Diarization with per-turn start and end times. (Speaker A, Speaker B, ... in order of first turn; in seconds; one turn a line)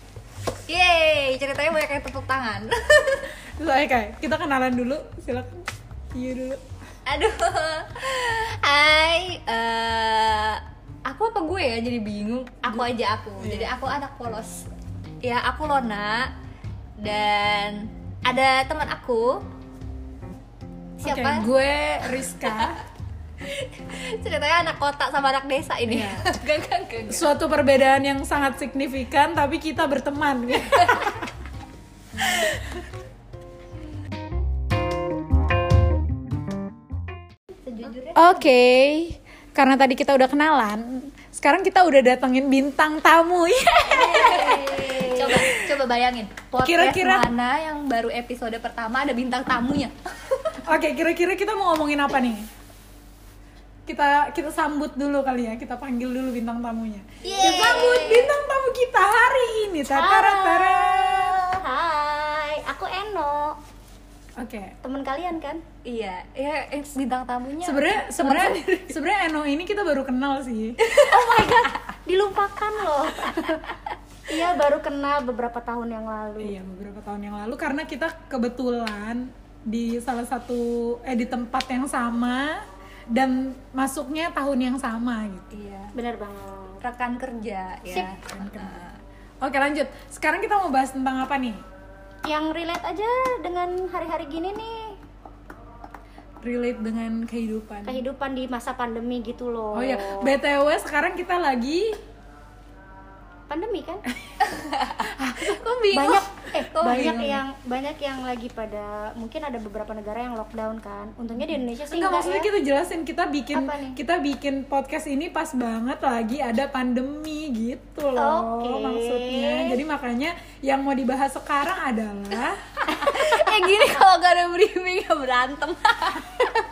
Speaker A: 0.7-3.4
Speaker B: 3.6-6.6
Speaker A: 7.1-14.7
Speaker B: 13.4-13.8
Speaker A: 15.2-16.3
Speaker A: 17.0-19.4
Speaker A: 21.0-21.5
Speaker B: 21.0-22.8
Speaker A: 22.4-22.7
Speaker A: 23.4-27.3
Speaker B: 25.9-26.3
Speaker B: 27.1-31.3
Speaker A: 30.8-31.1
Speaker A: 32.2-32.5
Speaker A: 37.6-38.5
Speaker B: 38.1-45.7
Speaker A: 43.9-50.5
Speaker B: 46.6-47.3
Speaker B: 50.6-52.5
Speaker B: 53.9-61.5
Speaker A: 57.2-58.3
Speaker C: 57.3-58.2
Speaker C: 59.9-63.6
Speaker B: 64.4-64.8
Speaker C: 64.8-65.6
Speaker A: 65.8-69.0
Speaker B: 67.6-70.8
Speaker A: 70.8-71.5
Speaker C: 71.0-76.5
Speaker B: 76.4-85.5
Speaker A: 85.5-85.9
Speaker C: 85.9-86.8
Speaker A: 86.8-89.0
Speaker B: 88.2-88.8
Speaker B: 89.4-91.6
Speaker C: 92.3-95.0
Speaker B: 96.4-98.0
Speaker C: 97.9-100.4
Speaker B: 99.7-102.0
Speaker C: 103.5-104.0
Speaker A: 104.5-107.3
Speaker B: 105.0-105.7
Speaker C: 105.9-112.5
Speaker B: 107.0-107.4
Speaker B: 111.9-123.0
Speaker C: 113.5-114.0
Speaker C: 118.2-119.8
Speaker A: 122.8-126.5
Speaker C: 123.1-123.5